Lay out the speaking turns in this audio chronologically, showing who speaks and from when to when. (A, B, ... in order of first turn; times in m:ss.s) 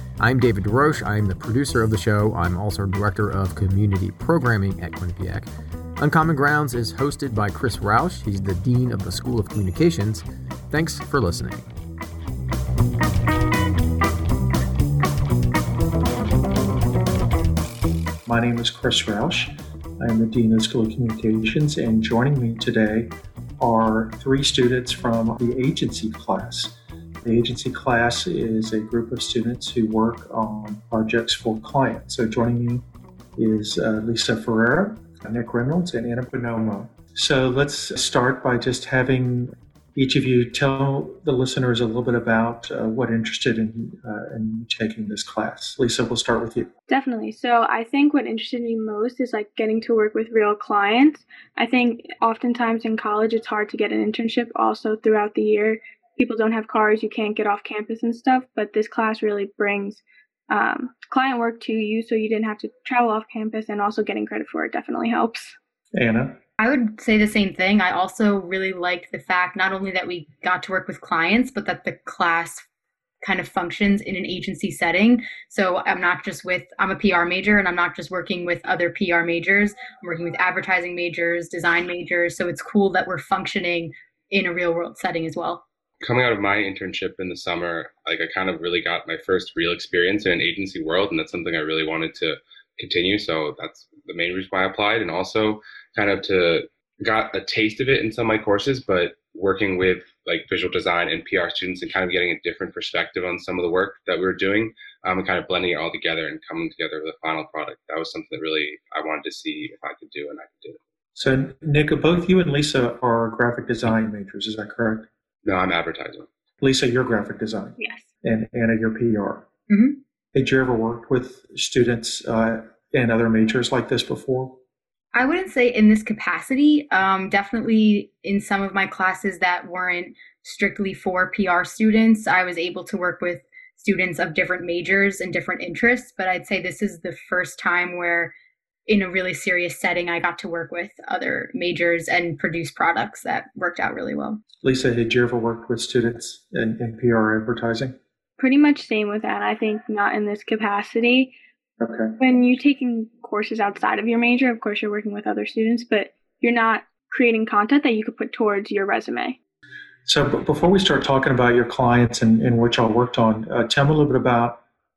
0:00.2-0:11.7 A
0:18.2-0:32.8 B
0:33.4-0:46.7 B
0:46.9-1:05.5 C
1:05.9-1:06.4 B
1:06.6-1:12.6 D
1:13.2-1:25.6 D
1:26.0-1:50.8 E
1:51.1-1:55.1 B
1:55.4-1:56.3 E
1:56.6-1:59.5 B
1:57.8-1:58.1 C
1:59.7-2:00.0 D
2:00.3-2:04.6 B
2:05.1-2:18.3 D
2:18.9-2:24.4 D
2:24.6-2:27.9 B
2:28.4-2:31.3 C
2:31.8-2:32.2 B
2:32.2-2:39.4 C
2:40.0-2:44.6 B